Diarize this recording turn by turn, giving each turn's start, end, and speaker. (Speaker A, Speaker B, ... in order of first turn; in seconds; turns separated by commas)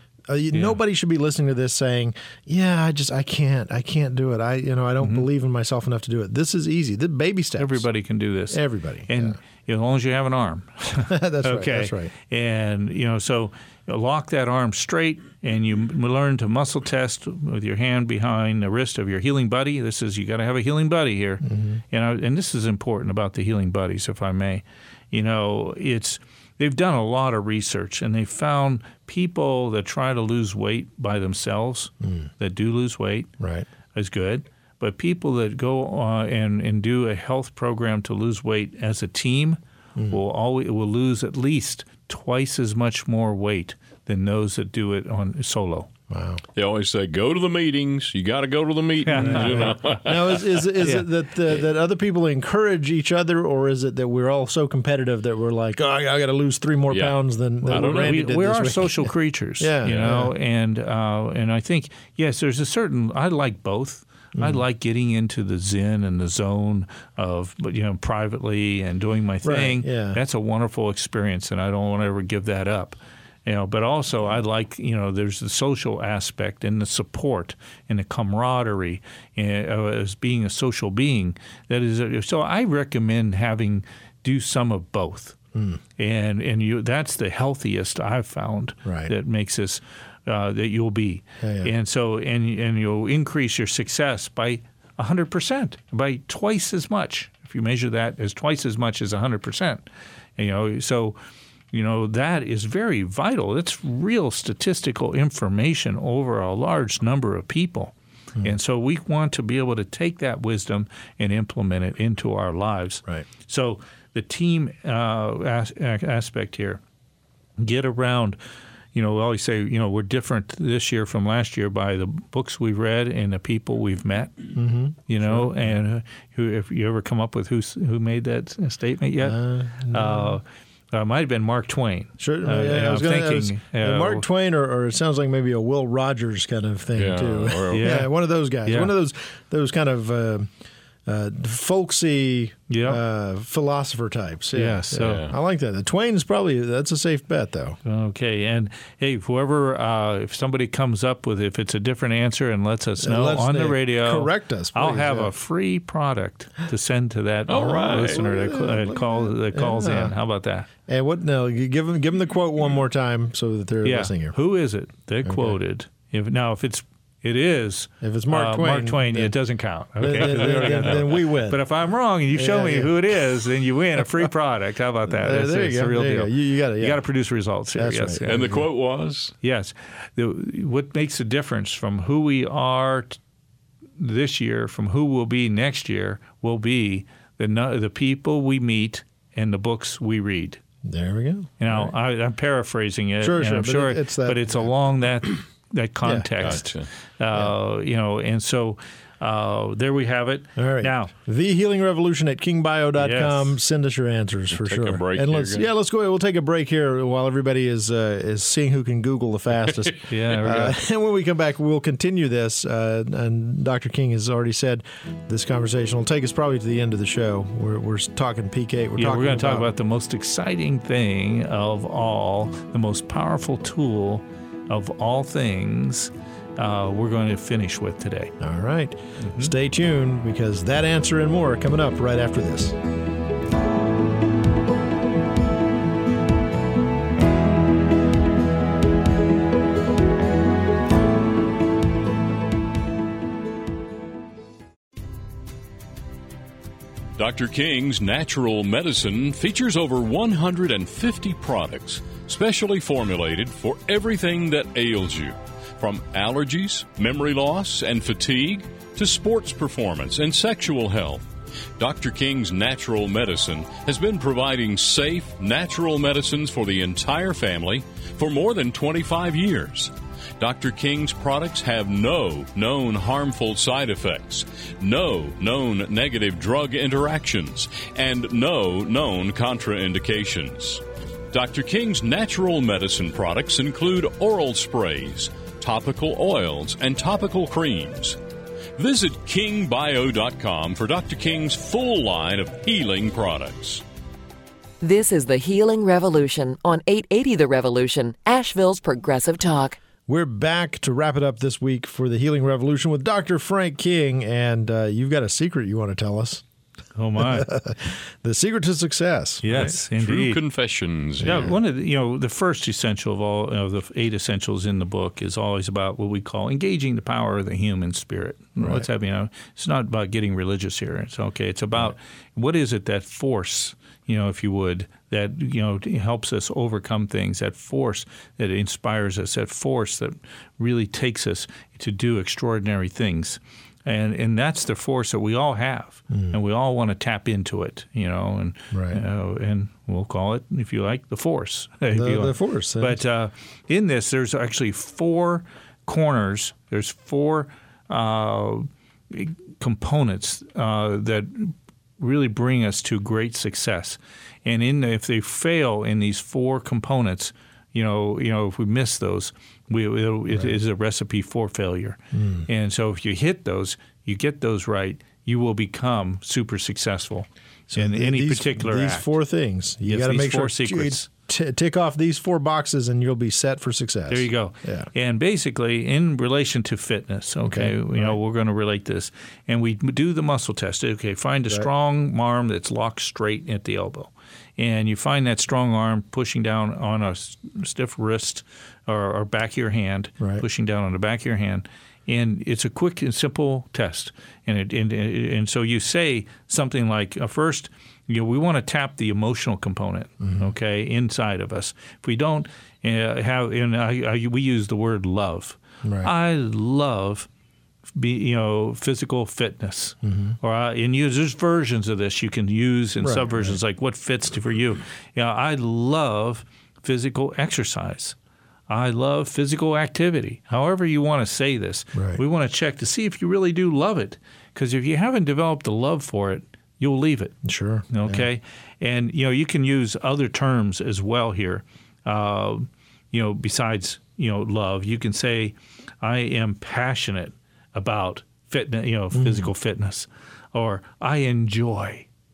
Speaker A: 0.3-7.8, Speaker B: 0.5-0.8, Speaker B: 7.6-33.3, Speaker A: 8.5-9.4, Speaker A: 11.1-12.1, Speaker A: 21.4-21.8, Speaker A: 32.0-32.3, Speaker A: 33.4-33.7, Speaker B: 33.9-45.9, Speaker A: 46.1-46.4, Speaker C: 46.5-50.6, Speaker B: 49.0-50.0, Speaker A: 49.1-60.3, Speaker C: 56.9-58.2, Speaker B: 57.6-85.4, Speaker A: 64.4-64.6, Speaker A: 69.4-70.2, Speaker A: 85.5-85.8, Speaker B: 86.0-99.8, Speaker A: 88.8-89.1, Speaker A: 91.4-91.7, Speaker B: 100.4-101.2, Speaker B: 101.7-116.8, Speaker B: 117.6-118.4, Speaker B: 118.9-124.5, Speaker A: 124.5-125.7, Speaker B: 125.1-134.2, Speaker A: 129.2-130.3, Speaker A: 132.2-140.5, Speaker C: 137.0-137.8, Speaker B: 137.7-138.1, Speaker B: 138.6-138.9, Speaker A: 141.1-147.8, Speaker B: 142.7-143.0, Speaker B: 144.5-145.2, Speaker C: 144.9-145.3, Speaker B: 147.8-160.7, Speaker A: 153.0-155.3, Speaker C: 157.5-158.2, Speaker A: 157.9-160.2, Speaker A: 160.9-164.4, Speaker B: 163.8-178.6, Speaker A: 165.2-165.6, Speaker A: 168.0-169.3, Speaker A: 170.0-171.6, Speaker A: 172.3-172.9, Speaker A: 175.1-177.1, Speaker A: 177.8-178.6, Speaker C: 178.2-179.3, Speaker B: 179.4-183.2, Speaker B: 184.0-190.6, Speaker A: 190.8-191.9, Speaker B: 191.6-201.1, Speaker A: 193.2-194.7, Speaker A: 196.0-196.6, Speaker C: 196.4-196.9, Speaker A: 200.6-219.7, Speaker B: 203.0-203.5, Speaker C: 204.5-205.7, Speaker B: 210.1-210.8, Speaker B: 219.0-228.3, Speaker A: 228.4-232.8, Speaker B: 229.2-229.5, Speaker C: 247.2-288.2, Speaker C: 288.8-293.8, Speaker D: 294.8-299.8, Speaker A: 300.1-306.4, Speaker B: 307.0-307.5, Speaker A: 307.2-309.8, Speaker B: 309.4-310.4, Speaker C: 309.5-311.6, Speaker B: 311.2-369.1, Speaker A: 318.6-318.9, Speaker A: 338.7-339.0, Speaker A: 341.9-343.0, Speaker A: 362.1-362.5, Speaker A: 367.7-374.9, Speaker B: 369.9-371.1, Speaker B: 374.1-407.3, Speaker A: 377.4-378.2, Speaker A: 405.8-406.1, Speaker B: 407.9-418.2, Speaker A: 410.0-410.4, Speaker A: 413.0-413.6, Speaker B: 418.7-427.4, Speaker A: 421.9-422.2, Speaker A: 427.4-428.3, Speaker B: 427.9-442.1, Speaker A: 439.1-439.5